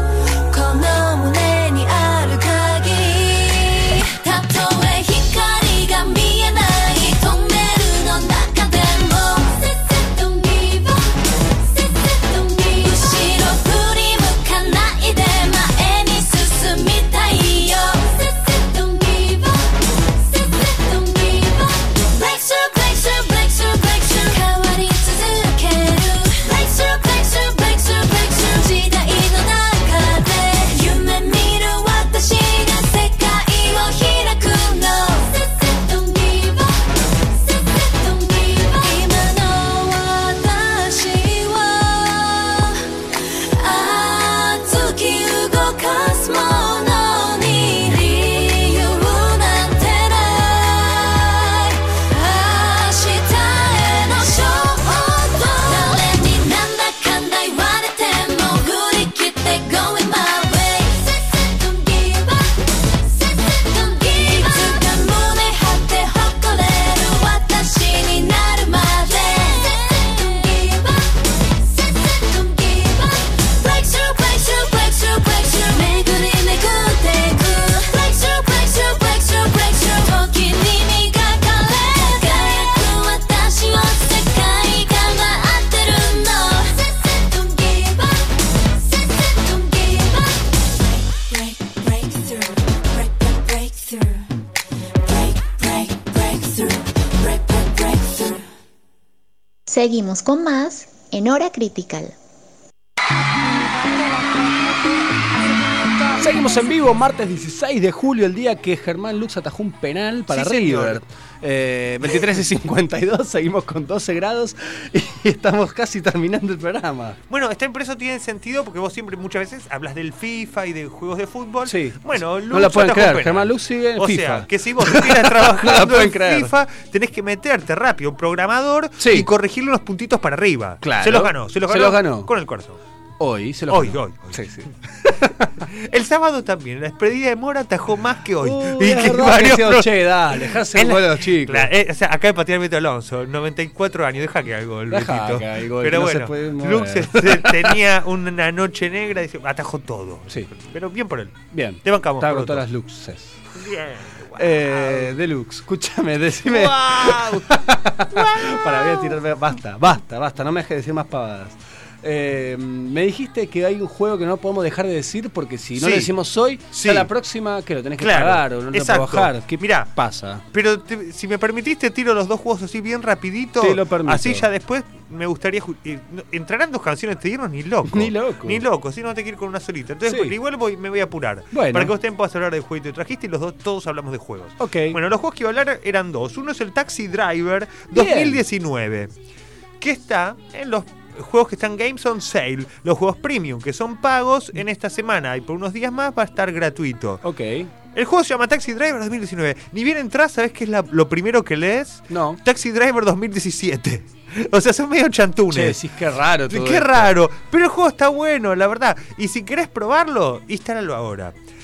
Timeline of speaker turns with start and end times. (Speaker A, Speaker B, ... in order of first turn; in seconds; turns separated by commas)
Speaker A: 0.5-42.8, Speaker A: 43.5-62.6, Speaker A: 63.4-88.4, Speaker A: 89.2-90.7, Speaker A: 91.3-94.2, Speaker A: 95.0-98.4, Speaker B: 99.7-102.1, Speaker C: 106.2-117.2, Speaker D: 110.3-111.0, Speaker D: 117.3-132.8, Speaker C: 121.6-122.0, Speaker C: 122.5-126.5, Speaker C: 129.0-129.3, Speaker C: 130.8-132.3, Speaker C: 133.2-135.5, Speaker D: 133.7-134.5, Speaker D: 135.7-152.6, Speaker C: 138.4-141.7, Speaker C: 144.9-147.7, Speaker C: 151.5-153.4, Speaker D: 153.5-155.1, Speaker C: 154.3-170.4, Speaker D: 156.5-157.5, Speaker D: 158.1-159.2, Speaker D: 165.8-166.1, Speaker D: 166.7-167.1, Speaker D: 168.0-169.9, Speaker D: 170.5-189.1, Speaker C: 173.6-174.4, Speaker C: 177.9-178.6, Speaker C: 180.1-180.3, Speaker C: 181.5-181.9, Speaker C: 184.6-185.0, Speaker C: 187.9-188.4, Speaker D: 189.8-197.2, Speaker C: 197.2-197.7, Speaker D: 197.9-205.8, Speaker C: 202.1-202.4, Speaker C: 205.5-207.1, Speaker D: 206.5-211.3